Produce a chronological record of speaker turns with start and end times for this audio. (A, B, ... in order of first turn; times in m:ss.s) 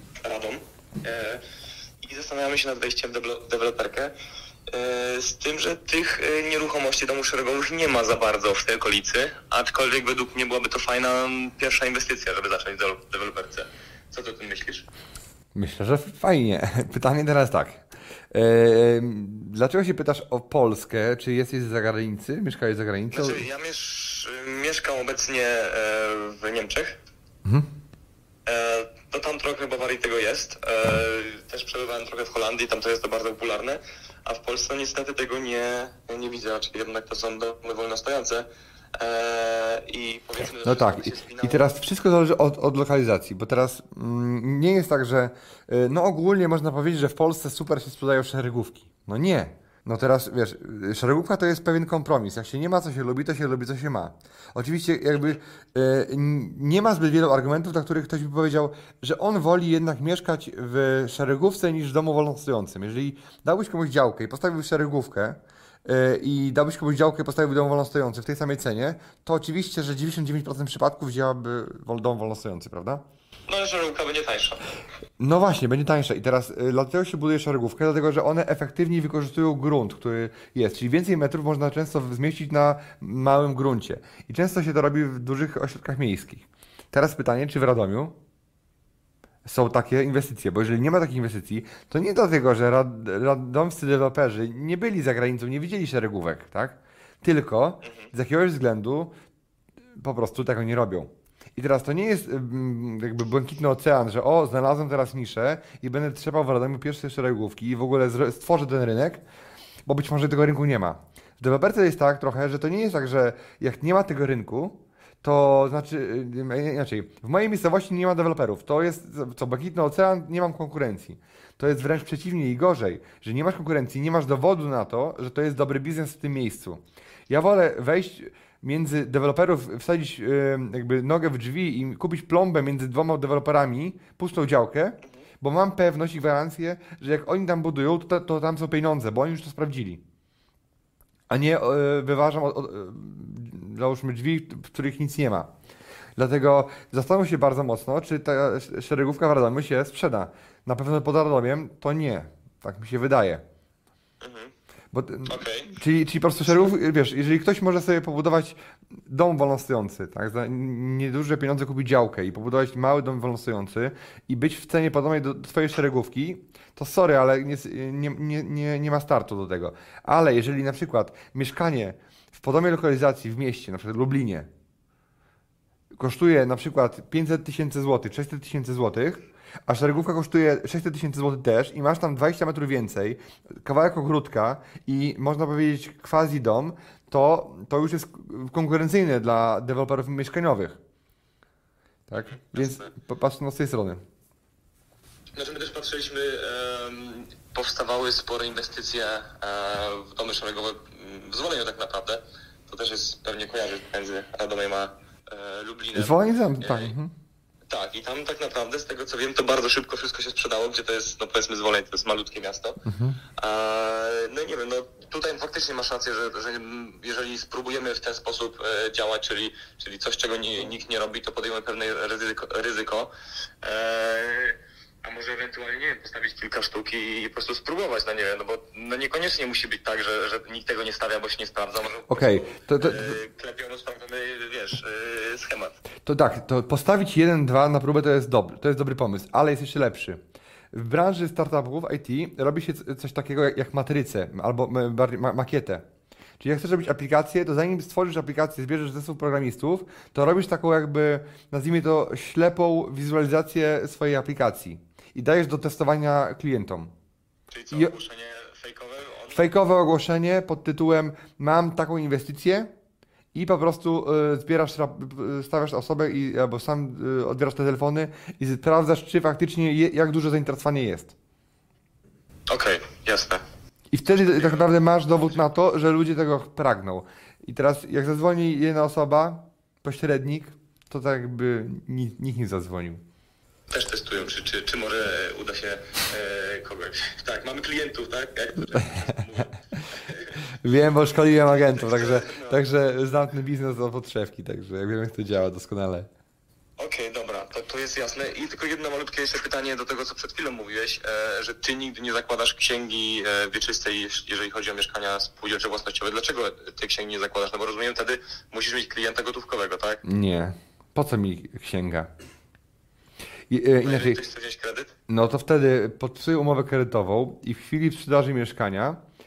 0:00.2-0:01.4 A
0:02.0-0:04.1 A
0:04.7-0:14.9 A
0:15.5-0:23.4 B
0:23.1-0:27.0 A
0:28.4-0:41.7 A
0:40.5-1:13.0 B
1:13.5-1:14.7 A
1:15.2-1:28.1 B
1:29.4-1:39.1 B
1:37.8-1:38.1 A
1:40.0-1:49.2 B
1:49.8-2:20.0 B
2:21.3-2:25.5 B
2:26.2-2:33.4 B
2:34.2-2:34.5 A
2:34.9-2:54.5 B
2:35.2-2:35.7 A
2:55.9-3:10.8 B
3:12.1-3:14.0 B
3:12.1-3:12.9 A
3:15.3-3:26.9 A
3:25.9-3:27.1 B
3:27.7-3:32.8 A
3:32.8-3:33.2 B
3:33.4-3:43.1 A
3:43.6-3:55.8 A
3:52.1-3:53.2 B
3:56.0-4:00.2 B
4:00.7-4:05.8 B
4:06.4-4:16.9 B
4:17.5-4:19.5 A
4:19.3-4:22.7 B
4:23.3-4:31.1 B
4:32.5-4:33.4 A
4:33.9-4:43.0 B
4:34.2-4:34.6 A
4:43.7-4:50.4 A
4:50.6-4:56.1 B
4:51.6-4:52.6 A
4:56.8-5:10.0 A
5:10.0-5:12.1 B
5:13.5-5:14.2 B
5:13.8-5:15.0 A
5:15.1-5:19.0 B